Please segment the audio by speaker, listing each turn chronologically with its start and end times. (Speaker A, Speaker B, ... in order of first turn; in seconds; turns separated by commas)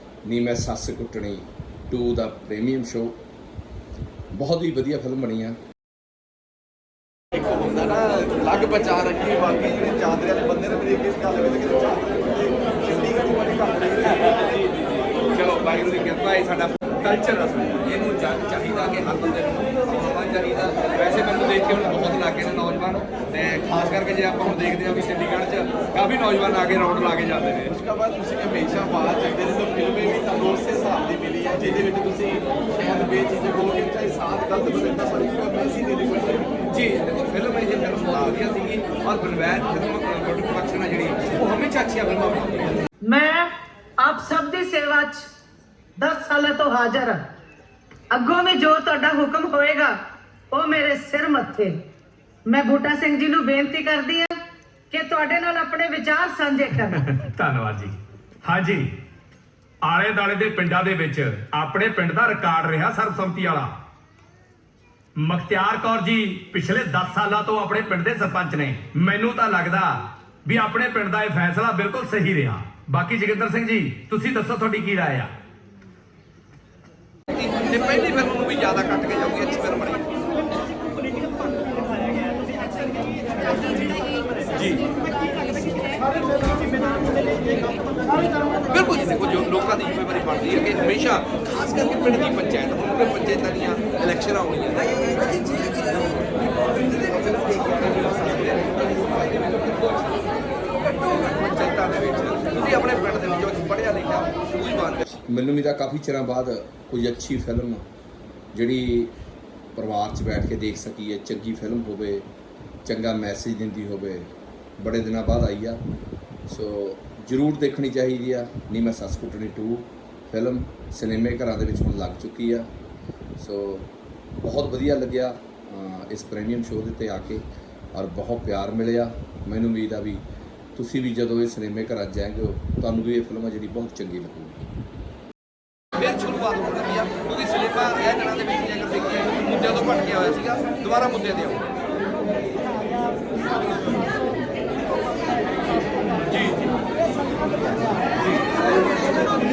Speaker A: 0.2-3.1, Speaker A: 4.3-5.6, Speaker B: 7.3-14.0, Speaker C: 13.9-27.7, Speaker B: 27.8-36.6, Speaker C: 36.7-42.8, Speaker D: 43.0-43.5, Speaker D: 44.0-45.3, Speaker D: 46.0-47.2, Speaker D: 48.1-50.0, Speaker D: 50.5-51.8, Speaker D: 52.4-54.3, Speaker D: 54.9-57.0, Speaker E: 56.9-58.9, Speaker E: 59.8-63.7, Speaker E: 65.2-75.3, Speaker C: 77.3-80.1, Speaker C: 84.5-84.9, Speaker C: 88.7-96.2, Speaker C: 96.7-100.3, Speaker C: 100.8-105.0, Speaker A: 105.3-107.8, Speaker A: 108.5-109.1, Speaker A: 109.8-112.2, Speaker A: 112.8-114.3, Speaker A: 114.8-115.8, Speaker A: 116.5-122.7, Speaker A: 123.4-123.9, Speaker A: 124.4-127.4, Speaker A: 127.9-130.2, Speaker A: 130.8-134.6, Speaker C: 136.0-141.7, Speaker C: 146.3-146.7, Speaker C: 148.2-148.7